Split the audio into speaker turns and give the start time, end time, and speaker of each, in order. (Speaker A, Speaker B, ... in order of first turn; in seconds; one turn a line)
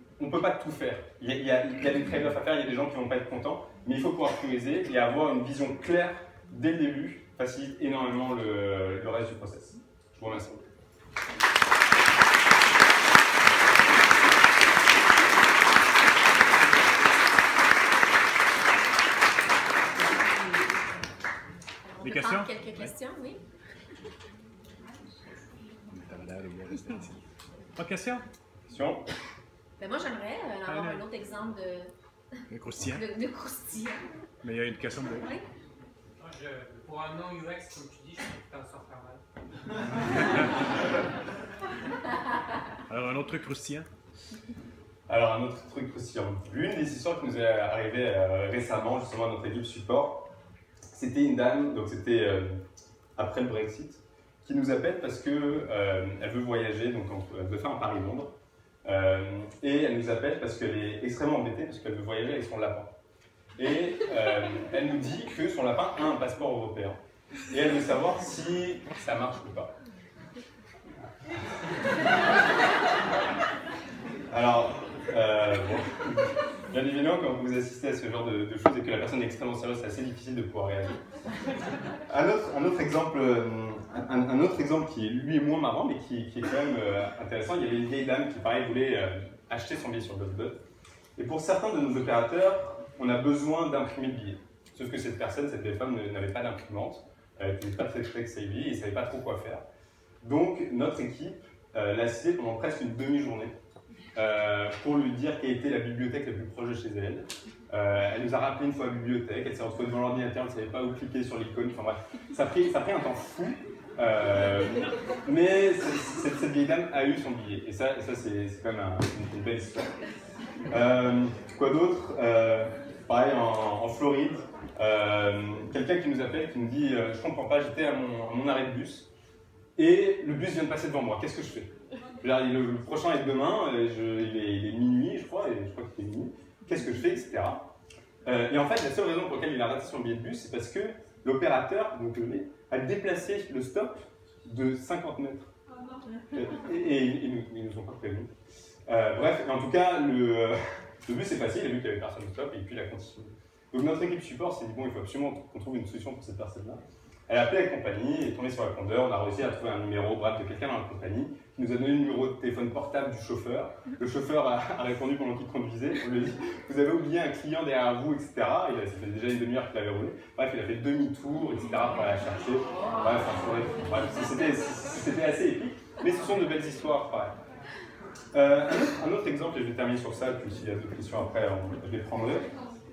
Speaker A: 0.2-10.6
Speaker B: 21.9-23.4
Speaker C: 22.0-22.9
Speaker C: 25.9-27.2
Speaker C: 27.8-28.2
Speaker A: 28.7-29.0
Speaker B: 29.8-31.9
Speaker C: 30.7-31.1
Speaker C: 32.5-33.1
Speaker B: 32.8-34.0
Speaker C: 34.4-35.3
Speaker D: 36.2-39.2
Speaker C: 42.9-43.9
Speaker A: 45.1-50.3
Speaker A: 50.9-52.6
Speaker A: 53.2-58.3
Speaker A: 58.9-63.0
Speaker A: 63.6-67.0
Speaker A: 67.5-69.7
Speaker A: 74.3-81.0
Speaker A: 82.1-90.6
Speaker A: 91.2-99.6
Speaker A: 100.2-103.5
Speaker A: 104.2-120.0
Speaker A: 120.7-129.1
Speaker A: 129.8-137.7
Speaker A: 138.3-145.5
Speaker A: 146.3-148.3
Speaker A: 148.9-177.3
Speaker A: 178.3-182.5